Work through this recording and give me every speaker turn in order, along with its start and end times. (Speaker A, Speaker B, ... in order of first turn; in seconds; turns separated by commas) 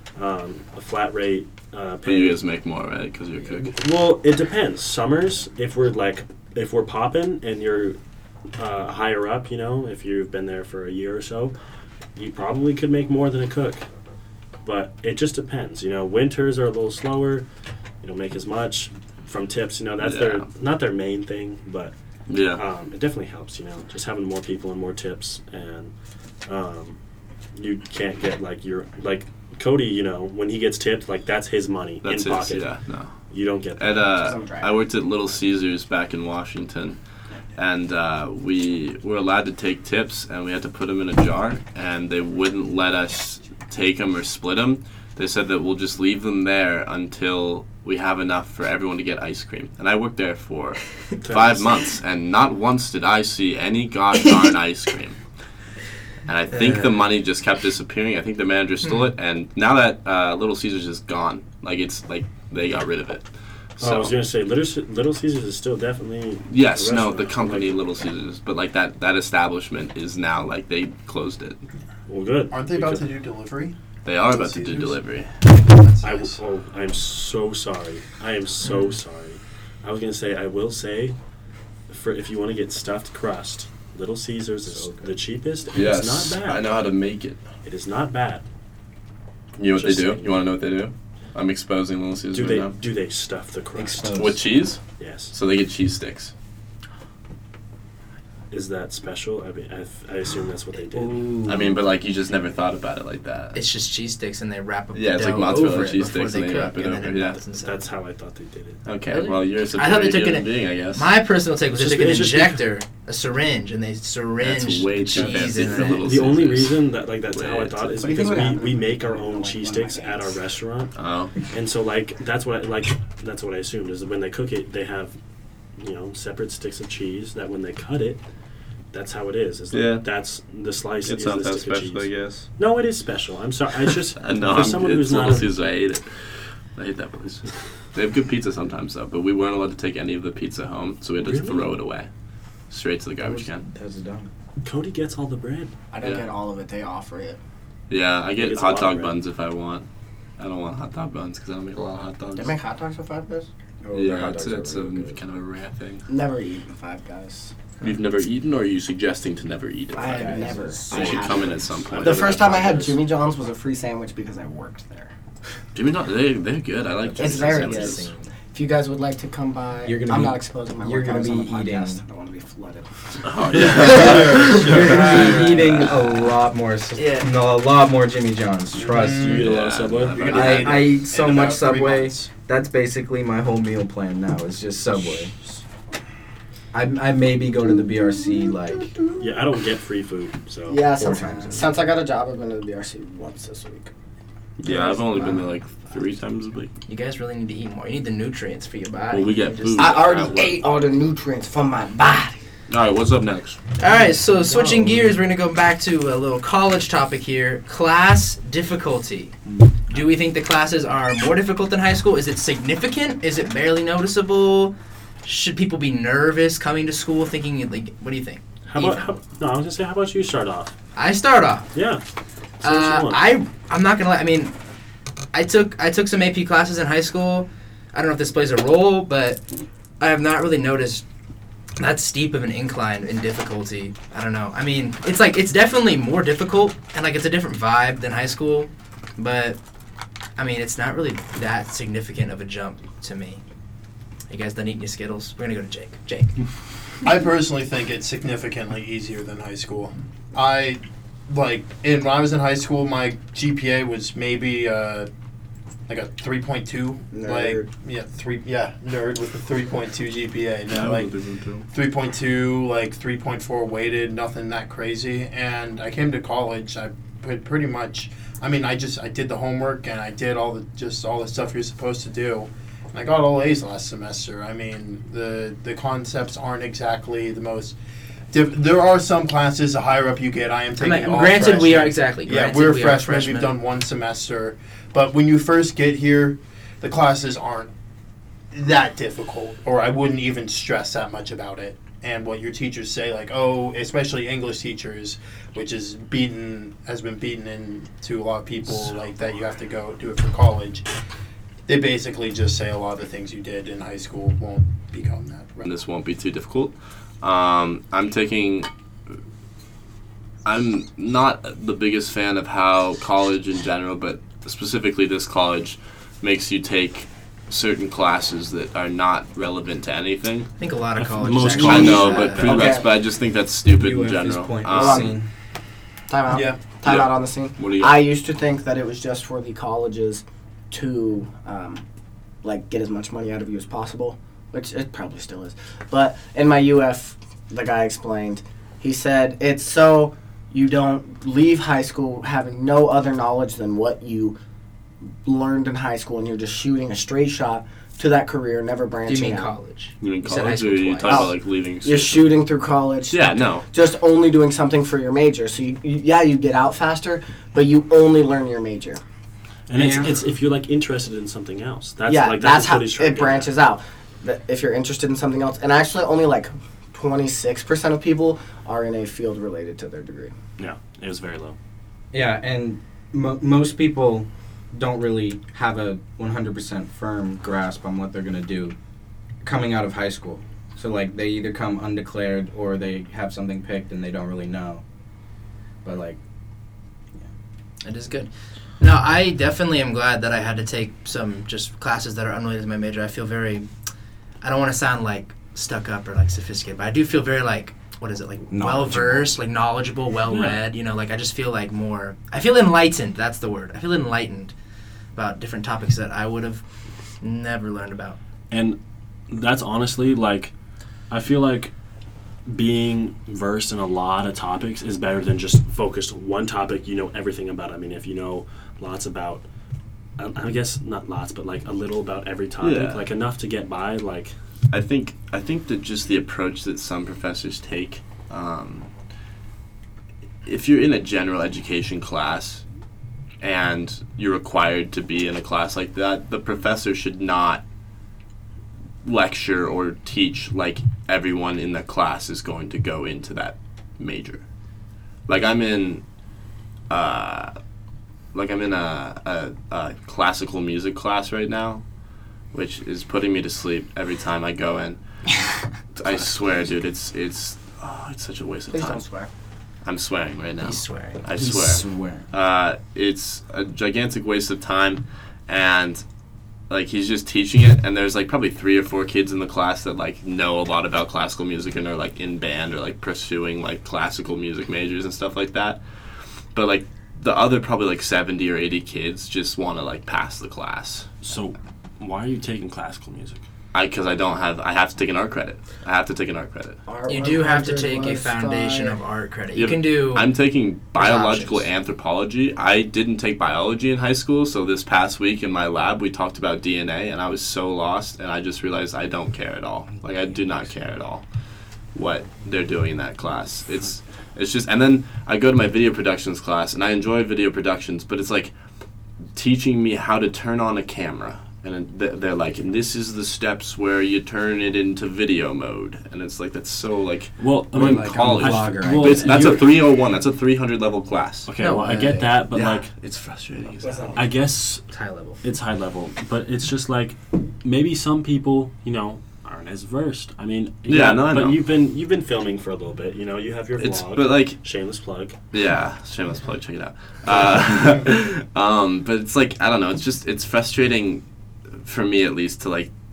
Speaker A: 0.1-2.4, Speaker B: 2.0-3.8, Speaker A: 3.5-8.0, Speaker A: 8.6-11.5, Speaker A: 12.2-13.8, Speaker A: 14.6-17.4, Speaker A: 18.0-21.9, Speaker B: 20.0-20.5, Speaker B: 22.3-22.6, Speaker A: 22.5-25.9, Speaker A: 26.4-27.0, Speaker A: 27.5-32.7, Speaker B: 32.0-33.1, Speaker A: 33.3-34.1, Speaker B: 33.8-37.0, Speaker C: 34.2-34.8, Speaker B: 37.5-55.2, Speaker A: 51.2-51.9, Speaker B: 56.2-63.2, Speaker D: 56.5-56.9, Speaker B: 63.8-64.1, Speaker A: 63.8-67.8, Speaker B: 66.5-71.6, Speaker A: 72.1-73.0, Speaker E: 72.5-76.4, Speaker B: 74.0-75.3, Speaker A: 76.0-81.2, Speaker A: 81.9-86.8, Speaker F: 84.7-85.1, Speaker B: 85.7-87.4, Speaker A: 87.6-88.4, Speaker B: 89.5-92.7, Speaker A: 89.7-90.4, Speaker A: 92.3-94.2, Speaker F: 93.7-94.4, Speaker B: 94.1-96.3, Speaker A: 95.0-95.3, Speaker A: 98.5-101.3, Speaker F: 100.9-101.8, Speaker B: 101.4-103.6, Speaker D: 103.5-107.8, Speaker B: 104.9-107.4, Speaker A: 107.6-108.8, Speaker B: 108.8-111.1, Speaker D: 109.1-116.0, Speaker A: 111.7-112.6, Speaker B: 114.4-116.8, Speaker A: 115.8-120.9, Speaker B: 117.3-118.5, Speaker C: 118.0-120.4, Speaker B: 120.9-121.3, Speaker A: 121.5-125.1, Speaker A: 125.8-128.2, Speaker A: 128.9-135.5, Speaker B: 129.7-130.0, Speaker B: 131.0-132.5, Speaker B: 134.2-142.1, Speaker A: 141.2-141.7, Speaker B: 142.7-143.7, Speaker F: 143.2-144.3, Speaker A: 144.6-145.7, Speaker C: 145.9-147.4, Speaker B: 146.0-146.3, Speaker B: 147.9-149.9, Speaker A: 148.4-149.2, Speaker B: 150.4-152.5, Speaker C: 152.3-153.5, Speaker F: 153.8-155.2, Speaker B: 153.9-156.1, Speaker C: 156.1-157.5, Speaker B: 157.8-162.9, Speaker C: 159.9-165.1, Speaker F: 160.1-161.4, Speaker A: 161.9-162.2, Speaker B: 165.7-168.1, Speaker F: 167.0-168.3, Speaker C: 167.2-175.0, Speaker F: 169.8-172.0, Speaker B: 173.2-176.0, Speaker E: 173.7-175.8, Speaker F: 173.7-179.5, Speaker D: 176.9-177.3, Speaker E: 178.7-179.4, Speaker A: 179.0-180.4, Speaker B: 179.4-180.9, Speaker E: 180.1-182.3, Speaker F: 180.3-185.3, Speaker F: 186.7-188.9, Speaker C: 188.0-188.5, Speaker A: 189.2-191.6, Speaker C: 190.7-193.9, Speaker F: 191.0-191.7, Speaker B: 194.6-196.7, Speaker C: 194.7-195.5, Speaker D: 196.9-200.0, Speaker B: 199.1-200.7, Speaker C: 199.8-202.4, Speaker B: 202.7-203.6, Speaker D: 203.8-209.3, Speaker D: 209.9-219.1, Speaker A: 218.7-220.7, Speaker D: 220.9-221.7, Speaker A: 221.7-222.0, Speaker A: 222.6-223.2, Speaker D: 222.6-224.5, Speaker D: 225.3-229.4, Speaker D: 230.0-231.0, Speaker D: 231.8-239.6, Speaker D: 240.4-243.4, Speaker D: 244.3-246.4, Speaker E: 247.0-255.1, Speaker E: 255.9-261.1, Speaker C: 257.1-257.7, Speaker B: 260.7-261.7, Speaker E: 261.7-277.8, Speaker E: 278.3-287.7, Speaker D: 280.8-283.5, Speaker E: 288.5-300.9, Speaker E: 301.7-305.7, Speaker B: 305.6-308.7, Speaker B: 310.4-320.5, Speaker D: 320.6-322.5, Speaker A: 320.9-322.8, Speaker B: 321.5-325.1, Speaker C: 321.5-322.9, Speaker F: 323.7-325.3, Speaker C: 324.7-325.1, Speaker C: 326.1-331.8, Speaker E: 326.3-326.8, Speaker B: 326.8-328.0, Speaker C: 332.4-344.4, Speaker C: 345.2-349.5, Speaker D: 349.1-351.3, Speaker B: 350.0-352.4, Speaker C: 351.1-359.0, Speaker B: 353.1-353.6, Speaker A: 359.7-363.5, Speaker F: 359.7-360.1, Speaker C: 362.1-370.3, Speaker A: 370.6-371.6, Speaker F: 372.1-378.7, Speaker F: 379.4-384.8, Speaker F: 385.8-386.2, Speaker D: 387.8-393.7, Speaker D: 394.4-404.5, Speaker F: 398.5-399.4, Speaker A: 400.3-400.6, Speaker D: 405.1-406.6, Speaker D: 407.2-408.2, Speaker A: 408.5-408.8, Speaker A: 409.3-410.5, Speaker A: 411.1-411.7, Speaker A: 412.4-419.4, Speaker A: 420.2-424.3, Speaker B: 422.6-423.0, Speaker B: 424.7-428.9, Speaker B: 430.4-432.6, Speaker B: 433.4-437.6, Speaker B: 439.0-444.4, Speaker B: 445.3-446.0, Speaker B: 446.9-447.5, Speaker B: 448.3-451.8, Speaker B: 452.5-455.0, Speaker B: 455.9-459.0, Speaker C: 458.7-459.3, Speaker B: 459.8-466.0, Speaker D: 460.6-461.2, Speaker F: 461.3-462.3, Speaker B: 466.7-475.8, Speaker B: 476.5-481.1, Speaker A: 481.2-483.4, Speaker B: 483.7-486.8, Speaker C: 486.9-488.9, Speaker D: 487.1-490.3, Speaker B: 489.5-501.2, Speaker D: 490.9-491.7, Speaker B: 501.9-508.5, Speaker B: 509.3-521.5, Speaker A: 517.4-519.6, Speaker F: 517.7-519.6, Speaker A: 521.5-522.9, Speaker D: 521.6-522.2, Speaker B: 522.5-524.2, Speaker A: 524.1-524.8, Speaker D: 524.9-525.4, Speaker A: 525.4-535.4, Speaker B: 530.9-531.6, Speaker B: 533.8-534.6, Speaker B: 535.5-541.2, Speaker B: 541.7-542.9